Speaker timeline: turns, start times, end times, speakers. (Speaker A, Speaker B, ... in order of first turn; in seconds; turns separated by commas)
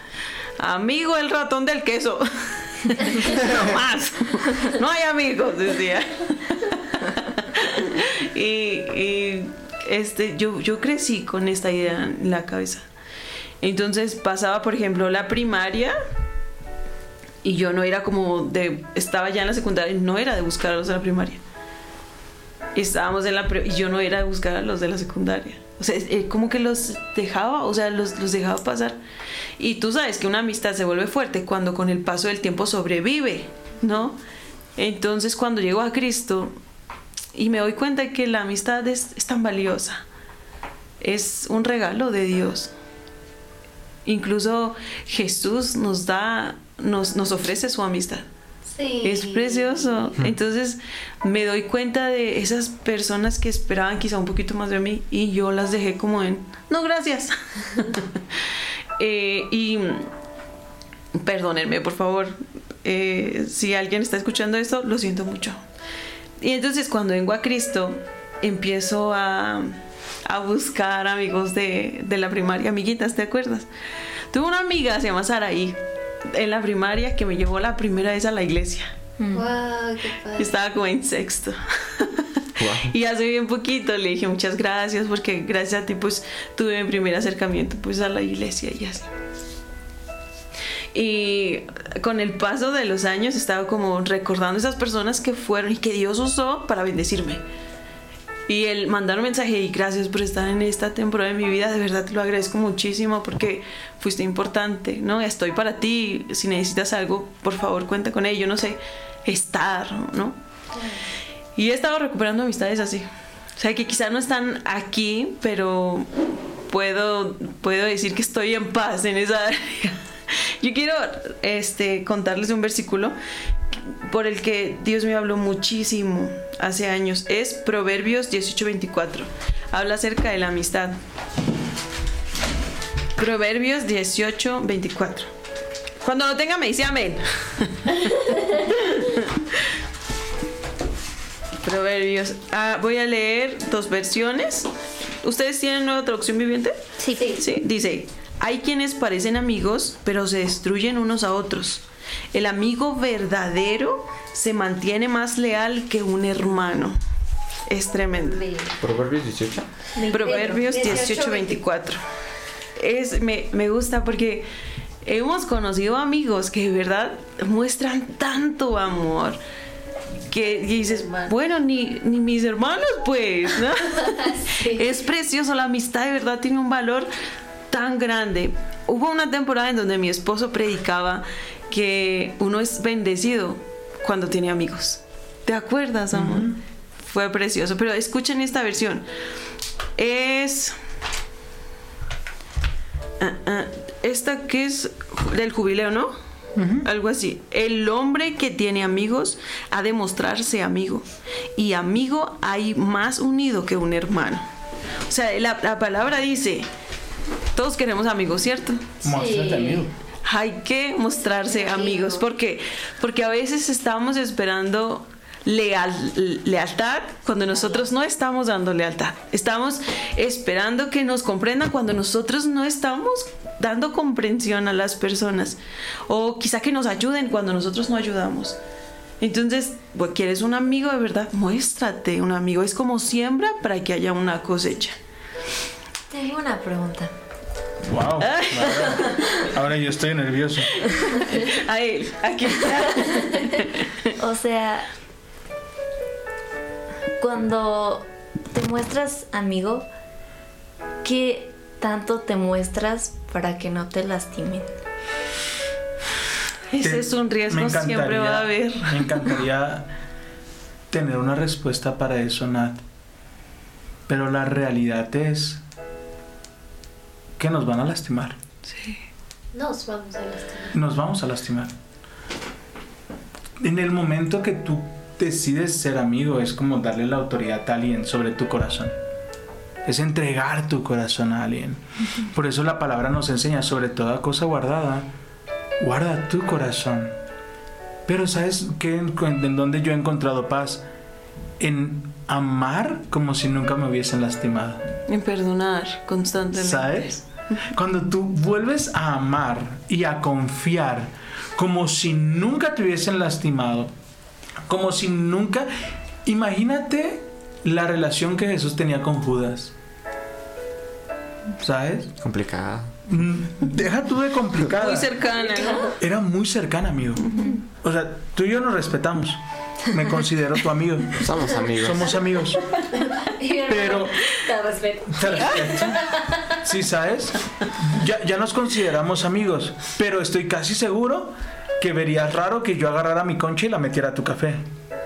Speaker A: 0.6-12.8, Speaker A: 13.6-15.9, Speaker A: 17.4-21.4, Speaker A: 22.7-29.0, Speaker A: 29.6-34.2, Speaker A: 34.8-36.5, Speaker A: 37.3-40.0, Speaker A: 41.0-42.7, Speaker A: 44.0-48.2, Speaker B: 48.7-50.1, Speaker A: 49.0-58.2, Speaker A: 59.0-60.1, Speaker A: 61.1-65.6, Speaker A: 66.4-73.7, Speaker A: 74.3-78.9, Speaker C: 79.2-79.5, Speaker B: 79.3-80.5, Speaker A: 80.4-89.1, Speaker D: 82.6-82.9, Speaker A: 90.9-97.4, Speaker A: 98.5-110.4, Speaker A: 111.5-116.1, Speaker A: 116.7-123.1, Speaker A: 123.9-131.0, Speaker A: 133.2-135.3, Speaker A: 136.0-139.6, Speaker A: 141.6-144.7, Speaker A: 145.2-146.8, Speaker C: 147.0-147.4, Speaker B: 147.2-147.4, Speaker A: 147.4-157.0, Speaker A: 157.7-158.4, Speaker B: 158.1-158.8, Speaker D: 158.8-159.7, Speaker C: 159.9-161.0, Speaker A: 160.1-162.0, Speaker B: 160.1-161.6, Speaker A: 162.8-164.5, Speaker A: 165.0-169.4, Speaker A: 170.3-177.1, Speaker B: 170.4-171.3, Speaker B: 174.0-174.8, Speaker A: 177.7-189.0, Speaker E: 186.1-186.6, Speaker A: 189.9-190.8, Speaker A: 193.2-196.1, Speaker E: 196.6-196.9, Speaker A: 196.8-204.4, Speaker A: 205.1-206.7, Speaker A: 207.5-208.9, Speaker E: 209.0-209.9, Speaker B: 209.0-209.9, Speaker A: 210.2-228.6, Speaker B: 211.4-212.2, Speaker B: 217.5-217.8, Speaker A: 229.2-235.0, Speaker C: 236.1-237.1, Speaker E: 237.8-240.7, Speaker A: 238.2-239.3, Speaker A: 240.8-244.1, Speaker C: 244.2-244.9, Speaker C: 247.2-249.8, Speaker C: 251.0-254.7, Speaker A: 256.7-259.2, Speaker E: 256.8-259.9, Speaker E: 260.9-262.8, Speaker E: 264.1-265.6, Speaker E: 267.4-268.4, Speaker A: 268.7-269.0, Speaker B: 269.5-270.8, Speaker E: 270.7-271.7, Speaker E: 273.6-278.9, Speaker E: 279.8-285.1, Speaker E: 285.8-287.1, Speaker E: 288.1-290.8, Speaker E: 291.6-294.8, Speaker A: 295.1-297.3, Speaker E: 296.5-303.9, Speaker E: 304.6-305.7, Speaker E: 306.2-309.7, Speaker E: 311.6-312.1, Speaker D: 312.2-312.9, Speaker E: 313.1-315.1, Speaker A: 314.7-315.9, Speaker B: 315.4-315.9, Speaker E: 316.0-321.2, Speaker C: 317.3-317.6, Speaker D: 321.2-322.1, Speaker E: 321.8-322.7, Speaker B: 322.9-326.5, Speaker E: 323.6-324.3, Speaker E: 325.1-334.6